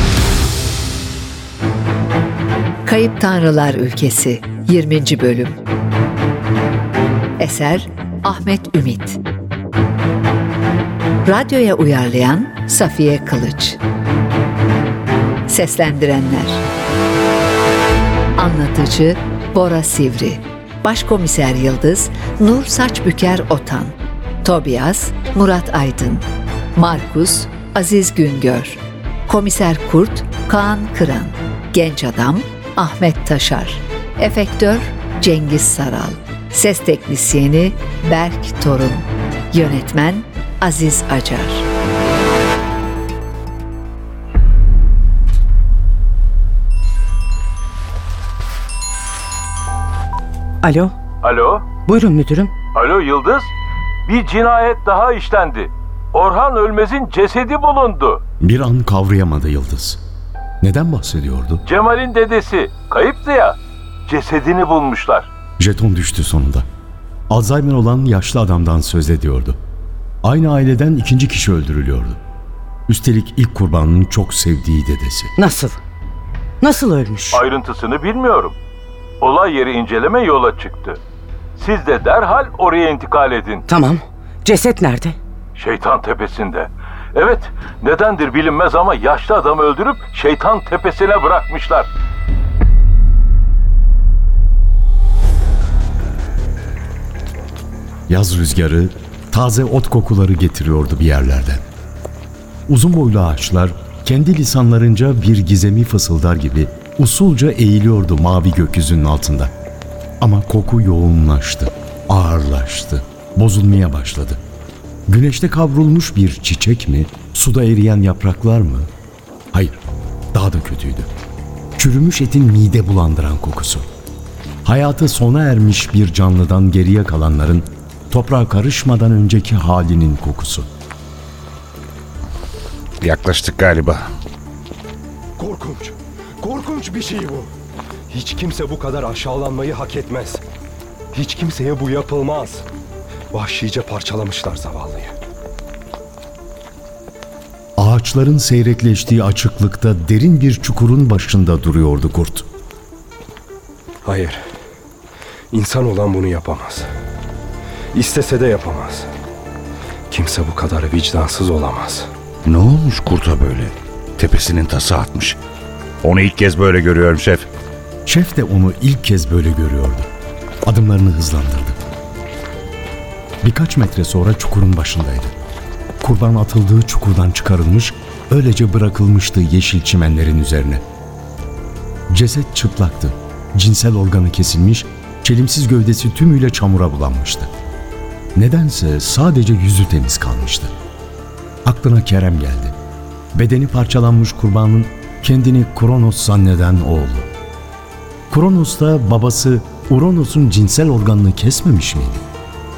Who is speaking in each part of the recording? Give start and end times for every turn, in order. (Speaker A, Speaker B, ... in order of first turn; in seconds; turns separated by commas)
Speaker A: 2.8-5.6, Speaker A: 7.4-9.2, Speaker A: 11.2-13.8, Speaker A: 15.5-16.6, Speaker A: 18.4-26.2, Speaker A: 26.8-41.7, Speaker B: 50.6-51.0, Speaker C: 51.2-51.7, Speaker B: 51.8-52.5, Speaker C: 52.7-53.5, Speaker C: 54.0-58.2, Speaker D: 58.4-60.0, Speaker D: 60.6-61.6, Speaker C: 61.7-65.3, Speaker D: 65.6-66.7, Speaker D: 67.3-69.6, Speaker D: 70.2-72.2, Speaker D: 72.9-75.3, Speaker B: 75.4-75.8, Speaker B: 76.6-77.4, Speaker C: 77.3-78.5, Speaker C: 79.2-81.0, Speaker C: 81.5-83.6, Speaker B: 83.7-85.2, Speaker C: 85.5-91.9, Speaker D: 98.1-101.6, Speaker D: 102.7-109.5, Speaker D: 110.2-114.4, Speaker D: 115.1-118.9, Speaker D: 119.5-119.8, Speaker D: 120.3-121.1, Speaker D: 121.8-123.9, Speaker D: 124.6-130.7, Speaker E: 133.0-134.1, Speaker F: 135.4-137.5, Speaker F: 138.1-140.4, Speaker F: 141.1-142.7, Speaker F: 143.3-145.1, Speaker D: 147.8-152.5, Speaker F: 154.0-154.4, Speaker F: 155.5-156.9, Speaker F: 157.9-159.1, Speaker F: 160.1-162.1, Speaker E: 162.5-165.4, Speaker E: 166.0-167.5, Speaker D: 168.1-170.1, Speaker D: 170.7-171.8, Speaker D: 173.4-175.3, Speaker D: 176.0-180.8, Speaker D: 182.1-187.5, Speaker D: 188.3-190.7, Speaker D: 191.7-192.8, Speaker D: 193.3-197.3, Speaker D: 198.3-202.2